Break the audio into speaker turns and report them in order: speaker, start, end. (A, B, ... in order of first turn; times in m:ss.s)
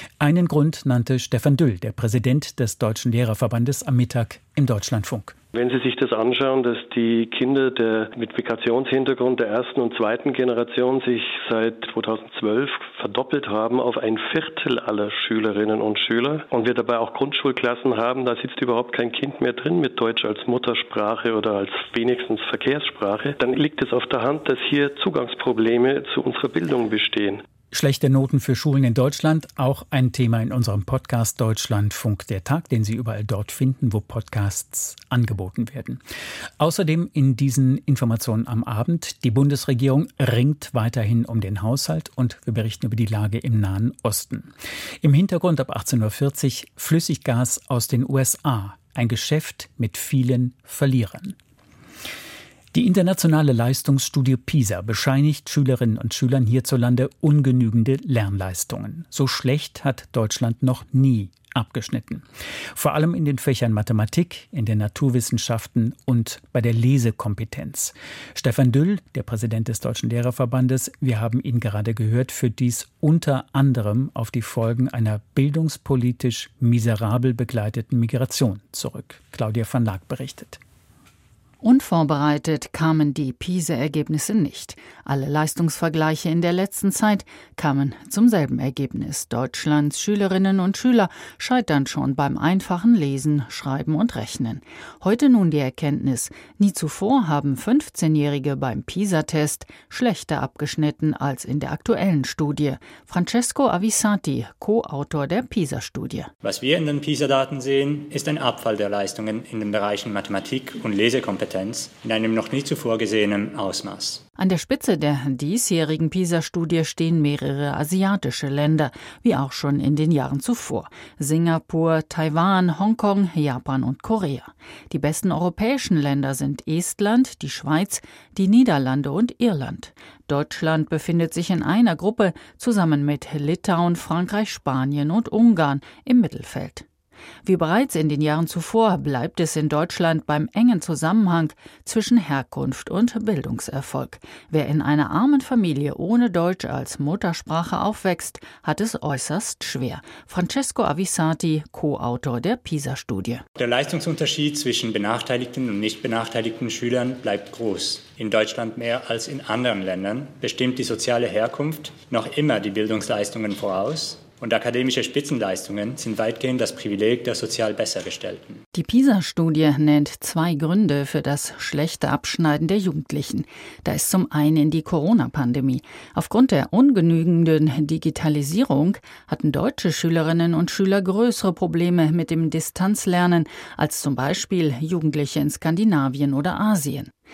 0:00.2-0:05.4 A
0:05.5-0:27.4 B
0:27.7-0:36.0 A
0:36.6-0:51.4 A
0:52.7-1:02.2 A
1:02.8-1:20.6 A
1:21.6-1:46.3 C
1:46.4-1:54.2 D
1:54.4-2:16.9 C
2:17.4-2:33.4 C
2:33.6-2:48.6 D
2:48.7-3:07.1 C